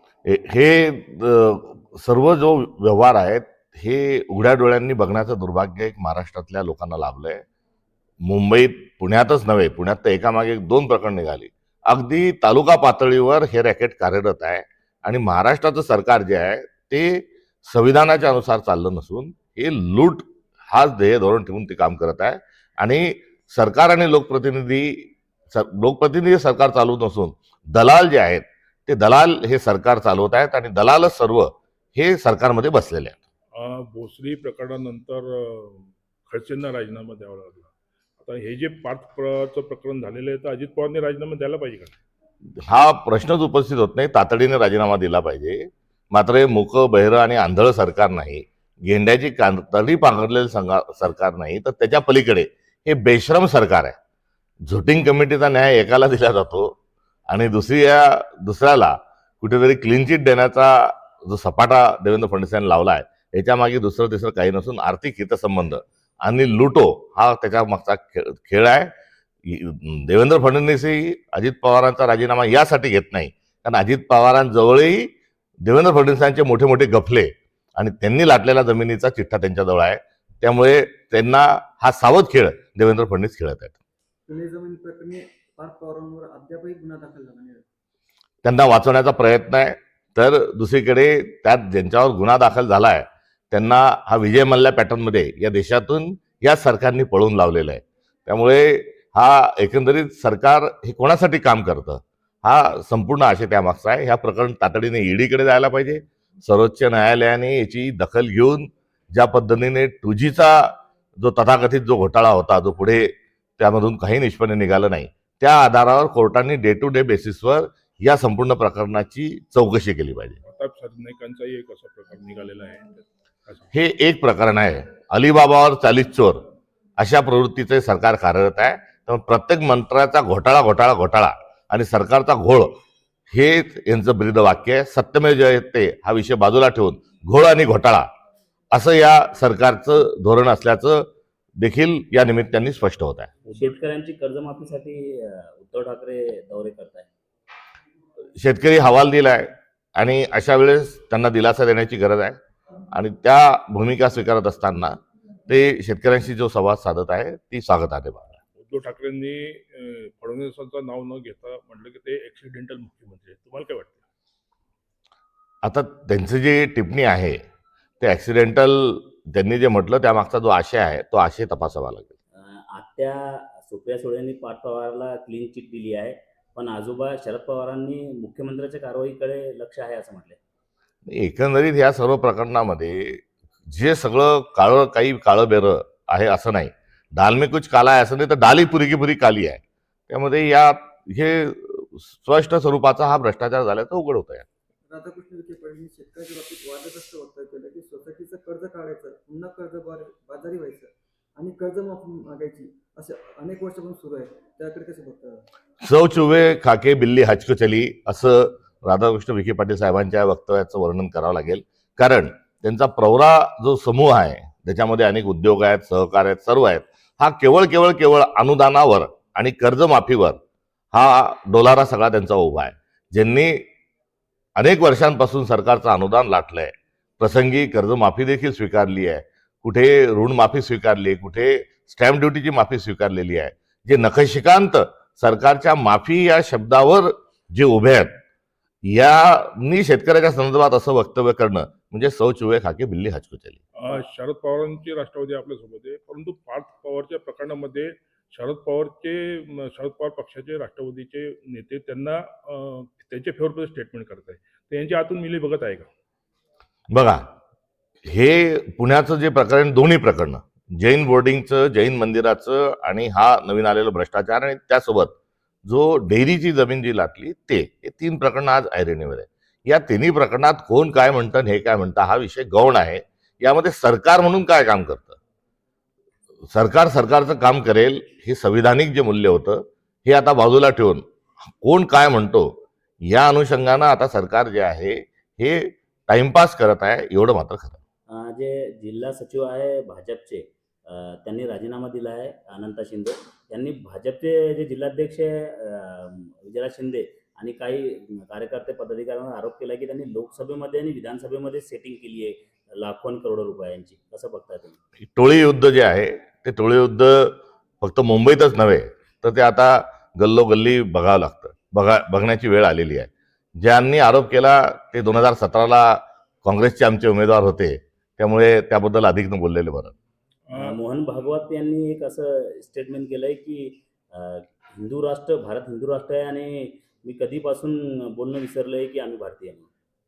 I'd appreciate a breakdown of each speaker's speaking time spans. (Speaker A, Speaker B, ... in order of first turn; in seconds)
Speaker A: 0.2-7.4, 8.2-33.2, 42.5-54.0, 54.6-56.7, 57.3-68.9, 69.4-75.1, 75.6-83.8, 88.4-120.4, 123.7-126.4, 127.0-132.8, 133.3-138.1, 138.7-141.1, 141.6-143.3, 148.4-152.4, 152.9-158.4, 165.6-167.4, 168.0-172.1, 181.1-194.4, 205.8-220.4, 220.9-223.7, 224.6-238.1, 238.8-243.6, 256.9-257.2, 258.1-275.2, 276.5-281.0, 281.6-282.5, 283.0-287.8, 305.1-319.9
Speaker B: 33.5-41.9, 120.4-123.7, 158.6-164.0, 243.8-255.9, 320.5-320.8
Speaker C: 84.3-87.6, 194.9-205.4
Speaker D: 143.5-147.1, 172.3-180.4, 288.1-304.8, 320.5-329.7